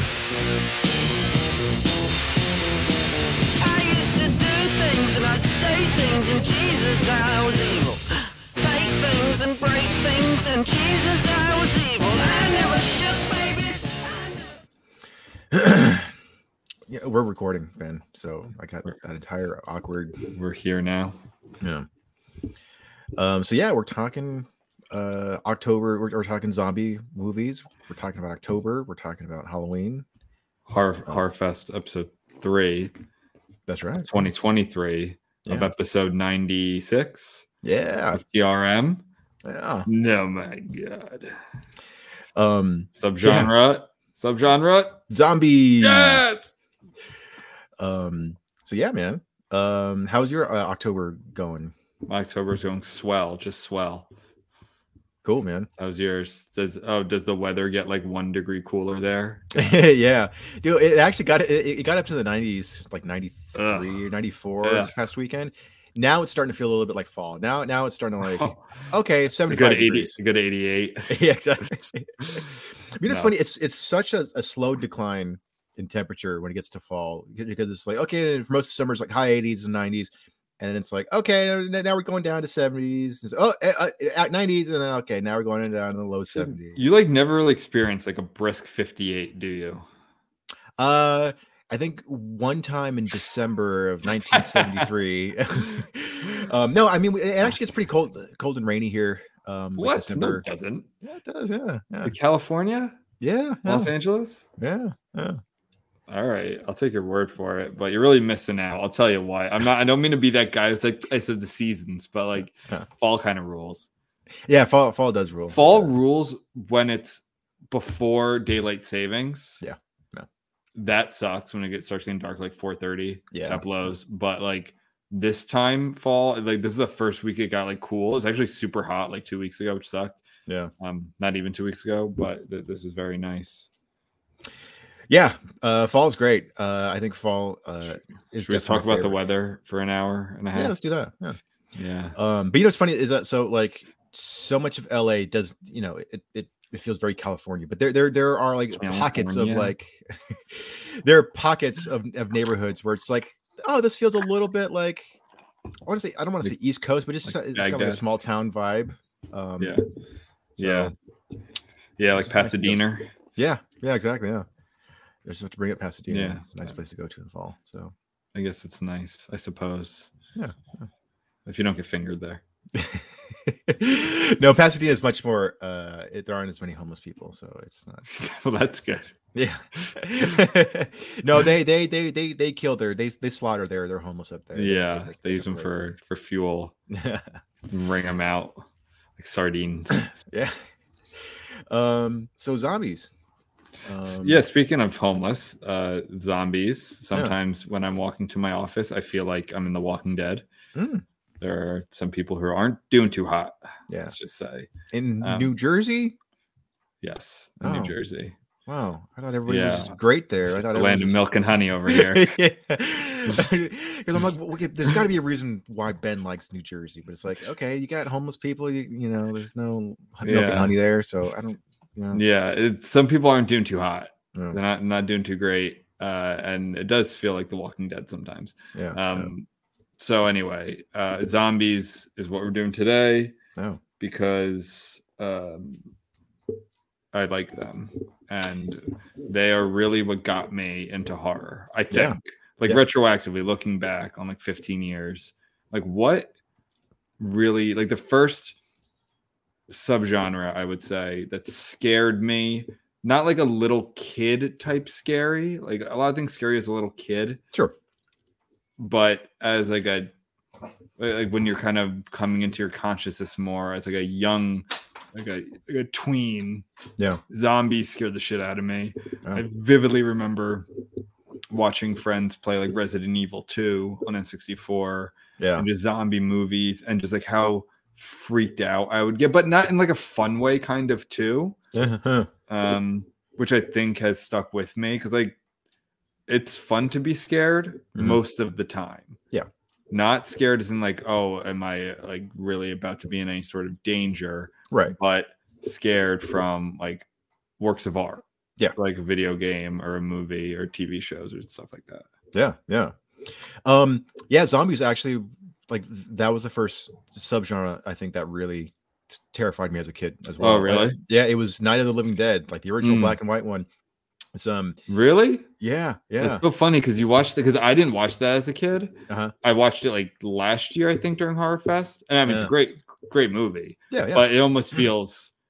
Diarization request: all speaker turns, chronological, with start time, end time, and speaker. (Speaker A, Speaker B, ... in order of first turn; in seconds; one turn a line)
Speaker A: 3.6-14.5
Speaker B: 15.5-16.1
Speaker B: 16.9-20.2
Speaker C: 20.3-21.2
Speaker B: 21.6-21.9
Speaker B: 23.2-30.1
Speaker C: 30.7-32.9
Speaker B: 33.7-34.1
Speaker C: 34.0-37.5
Speaker B: 37.6-38.2
Speaker C: 38.1-39.0
Speaker B: 39.4-39.9
Speaker C: 39.9-41.4
Speaker B: 42.4-43.5
Speaker C: 43.0-45.0
Speaker B: 45.1-46.4
Speaker C: 45.8-46.5
Speaker B: 47.8-51.7
Speaker C: 52.1-54.1
Speaker B: 55.2-55.7
Speaker C: 55.8-59.7
Speaker B: 59.5-70.2
Speaker C: 63.5-63.9
Speaker C: 64.6-65.0
Speaker C: 68.3-68.6
Speaker C: 69.5-71.2
Speaker B: 71.1-86.8
Speaker C: 73.1-73.3
Speaker C: 86.3-89.9
Speaker B: 90.8-100.5
Speaker C: 94.3-94.9
Speaker C: 99.8-100.9
Speaker B: 101.0-102.1
Speaker C: 102.0-103.0
Speaker B: 103.2-103.9
Speaker C: 103.7-104.5
Speaker B: 104.6-105.4
Speaker C: 106.1-113.9
Speaker B: 114.5-115.8
Speaker C: 115.5-119.6
Speaker B: 119.6-120.3
Speaker C: 120.8-130.2
Speaker B: 123.3-123.6
Speaker B: 130.5-130.7
Speaker C: 130.8-133.7
Speaker B: 135.1-139.2
Speaker C: 138.4-140.7
Speaker B: 140.5-141.4
Speaker C: 141.8-142.2
Speaker B: 142.2-155.2
Speaker C: 148.8-149.7
Speaker B: 155.9-159.8
Speaker C: 157.3-158.0
Speaker C: 159.6-159.8
Speaker B: 160.6-160.9
Speaker C: 160.6-160.9
Speaker C: 162.0-163.1
Speaker B: 162.2-162.8
Speaker B: 163.4-164.5
Speaker B: 165.2-167.9
Speaker C: 166.1-166.5
Speaker C: 168.3-170.1
Speaker B: 170.3-170.9
Speaker C: 171.5-172.4
Speaker B: 172.7-178.1
Speaker C: 178.1-179.2
Speaker B: 179.3-185.7
Speaker C: 179.8-180.4
Speaker C: 184.6-186.7
Speaker B: 186.9-187.4
Speaker C: 187.6-188.6
Speaker C: 189.2-190.1
Speaker B: 190.1-190.6
Speaker B: 191.2-193.1
Speaker B: 193.8-194.4
Speaker C: 194.0-200.4
Speaker B: 200.8-201.0
Speaker C: 201.4-204.7
Speaker B: 203.9-204.2
Speaker B: 204.9-206.2
Speaker C: 205.2-205.5
Speaker C: 207.0-208.4
Speaker B: 207.6-207.9
Speaker B: 208.7-211.2
Speaker C: 209.5-212.4
Speaker B: 211.9-222.2
Speaker C: 220.2-220.7
Speaker C: 222.1-229.5
Speaker B: 228.8-229.3
Speaker C: 230.0-233.3
Speaker B: 233.6-233.8
Speaker C: 234.0-235.9
Speaker C: 237.1-246.3
Speaker B: 241.9-242.8
Speaker C: 247.2-248.6
Speaker C: 249.7-257.4
Speaker C: 258.8-260.1
Speaker C: 261.0-266.6
Speaker C: 267.3-270.7
Speaker C: 271.5-281.6
Speaker B: 275.4-275.7
Speaker B: 281.7-282.3
Speaker C: 282.5-285.4
Speaker C: 286.3-289.2
Speaker C: 289.9-297.1
Speaker B: 294.7-295.0
Speaker C: 297.6-298.2
Speaker C: 298.8-302.1
Speaker B: 302.3-313.7
Speaker C: 310.4-311.0
Speaker C: 312.8-313.2
Speaker B: 314.4-314.8
Speaker C: 314.9-315.5
Speaker B: 315.6-316.4
Speaker C: 316.2-325.3
Speaker B: 322.3-322.5
Speaker B: 323.9-324.9